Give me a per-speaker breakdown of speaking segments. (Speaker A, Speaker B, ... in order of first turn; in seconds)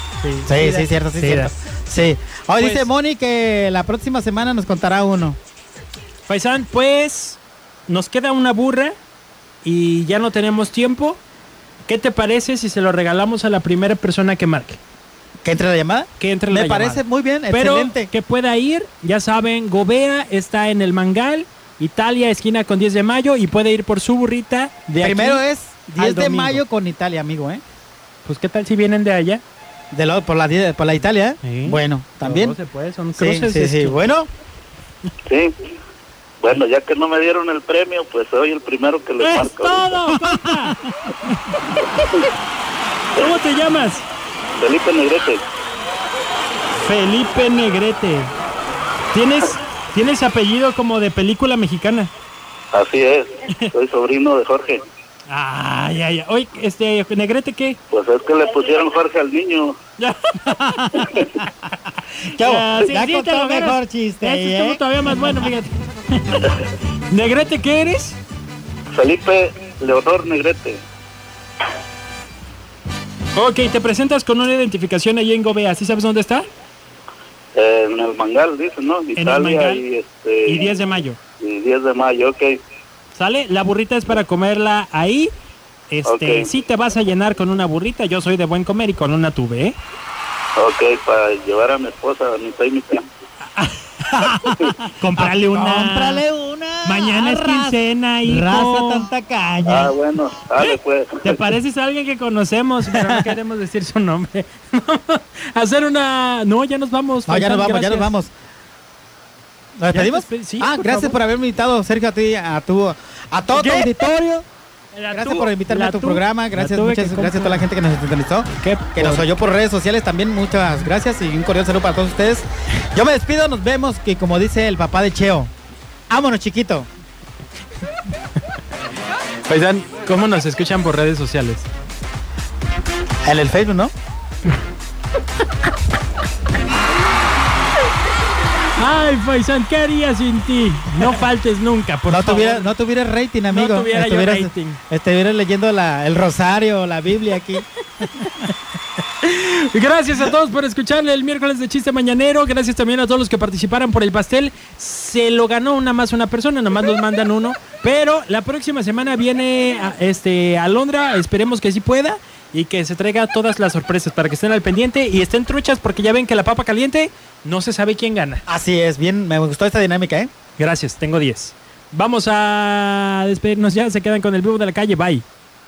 Speaker A: 0.2-1.5, 2.6-2.9, 6.2-9.0, 9.6-11.2, 11.9-14.8, 16.2-25.4, 26.0-26.6, 28.2-29.4, 31.4-34.0, 39.2-41.2, 43.2-44.1, 46.8-48.3, 49.1-52.1, 55.3-57.8, 60.0-61.0, 62.4-66.6, 67.1-68.2, 73.3-76.5, 79.2-79.8, 80.5-81.2, 83.1-85.3, 85.9-89.8, 93.5-94.3, 95.0-96.2, 96.8-99.0, 101.2-108.1, 109.9-111.2, 113.5-113.9, 114.9-117.7, 118.6-119.3, 129.5-131.7, 138.8-142.7, 143.5-144.8, 148.2-148.5, 149.2-168.4, 170.6-175.2
Speaker B: 0.5-5.4, 15.4-18.1, 25.0-27.6, 29.9-32.6, 33.2-34.3, 40.3-41.1, 60.5-61.7, 62.3-64.8, 94.1-99.9, 102.9-103.4, 107.3-108.3, 109.8-114.5, 115.1-125.5, 126.1-126.9, 133.2-133.9, 142.1-147.7, 168.5-170.3
Speaker C: 36.4-40.0, 44.6-45.4, 52.7-54.8, 57.9-59.8, 68.9-70.8, 77.5-80.7, 81.4-82.6, 86.0-86.5, 90.6-93.1, 99.7-101.4